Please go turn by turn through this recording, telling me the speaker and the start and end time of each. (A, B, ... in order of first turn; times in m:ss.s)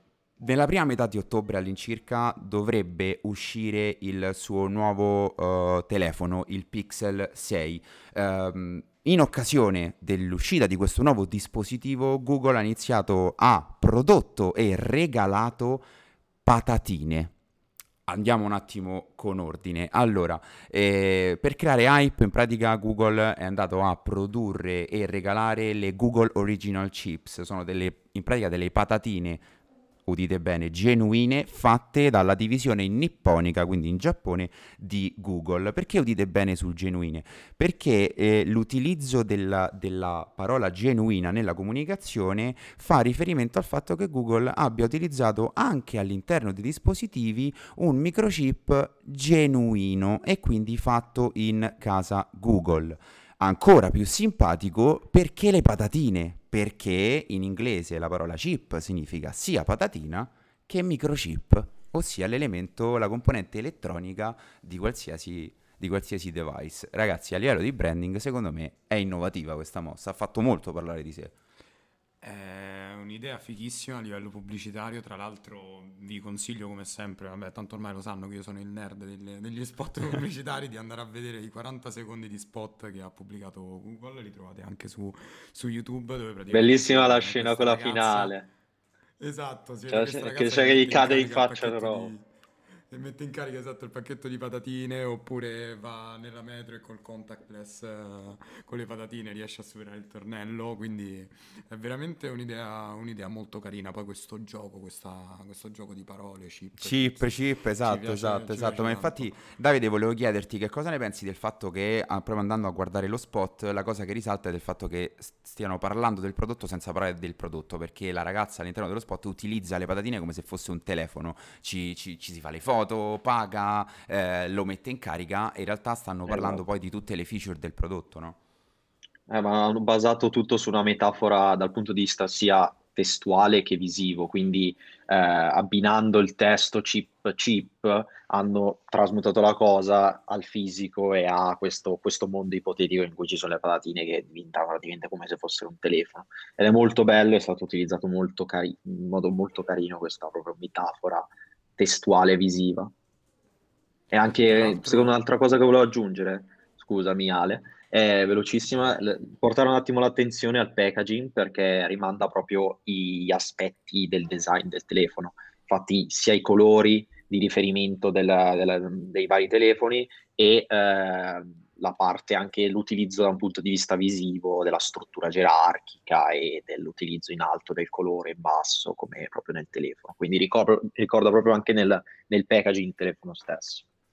0:00.4-0:15.9 A
0:16.5-0:17.3 A
0:18.1-0:29.4 A
0:30.1-1:11.3 A
1:12.2-1:28.4 B
1:26.5-1:28.4 C
1:29.2-1:32.2 B
1:29.9-1:32.1 C
1:32.9-1:49.3 B
1:46.8-2:08.4 A
2:06.3-2:06.6 C
2:09.3-2:32.9 C
2:34.1-3:03.8 C
2:34.4-2:35.2 B